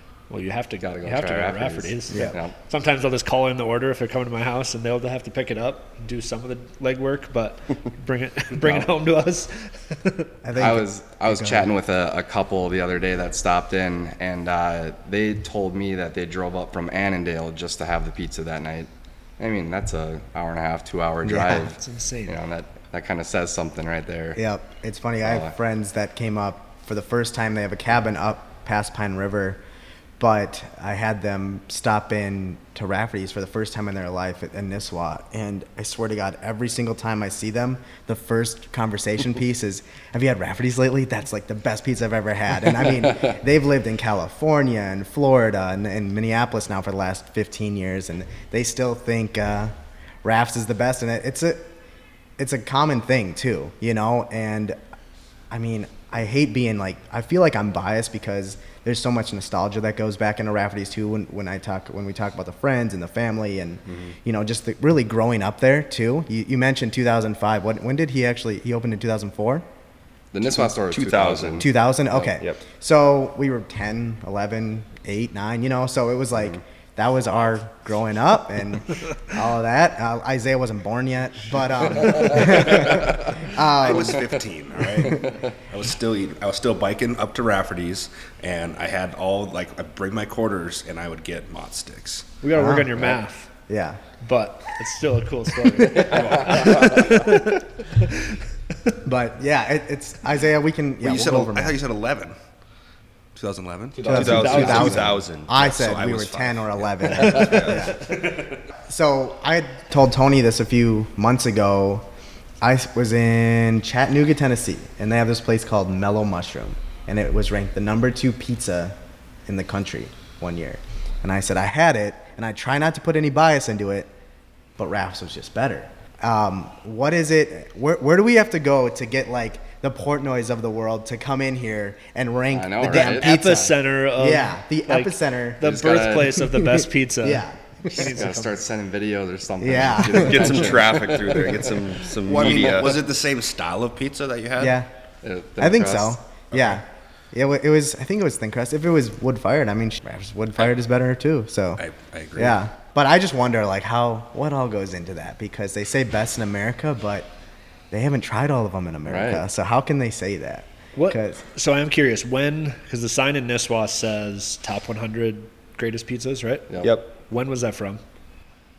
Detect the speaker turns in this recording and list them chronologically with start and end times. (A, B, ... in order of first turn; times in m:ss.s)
0:00.3-0:10.3 A
0:00.8-0:02.5 B
0:02.1-0:02.4 C
0:08.6-0:08.9 B
0:10.4-0:11.7 C
0:10.6-0:24.4 B
0:21.2-0:21.7 C
0:21.7-0:22.4 A
0:24.4-0:29.6 C
0:25.2-0:25.5 B
0:30.2-0:49.7 C
0:50.2-0:51.7 C
0:52.4-0:54.8 C
0:55.5-1:09.6 C
1:03.9-1:04.1 B
1:10.3-1:11.6 B
1:10.4-1:11.7 D
1:11.6-1:24.2 C
1:21.9-1:23.4 B
1:22.1-1:32.3 E
1:25.2-1:25.4 B
1:32.4-1:33.5 A
1:32.5-1:33.1 C
1:33.7-1:34.0 C
1:34.2-1:38.2 A
1:35.8-1:37.1 B
1:35.9-1:37.4 E
1:39.0-1:41.8 C
1:41.0-1:42.4 E
1:43.3-1:44.9 E
1:44.0-1:44.9 B
1:44.0-1:48.1 C
1:44.1-1:45.6 D
1:44.1-1:45.1 A
1:45.5-1:48.6 E
1:47.1-1:47.9 D
1:47.2-1:47.7 B
1:48.9-1:52.0 C
1:52.6-1:58.9 C
1:59.4-2:04.1 C
2:04.8-2:16.0 C
2:12.5-2:13.4 B
2:12.9-2:18.5 A
2:15.6-2:16.5 B
2:16.5-2:18.3 C
2:17.9-2:22.1 B
2:19.6-2:20.8 C
2:20.2-2:23.0 D
2:22.2-2:24.8 E
2:24.6-2:24.9 C
2:25.2-2:26.2 B
2:25.6-2:31.8 C
2:26.5-2:26.8 E
2:31.8-2:32.6 E
2:32.4-2:37.3 C
2:37.9-2:41.4 C
2:39.1-2:39.4 B
2:40.9-2:46.6 A
2:46.7-2:46.9 B
2:46.8-2:47.1 D
2:47.2-2:48.0 A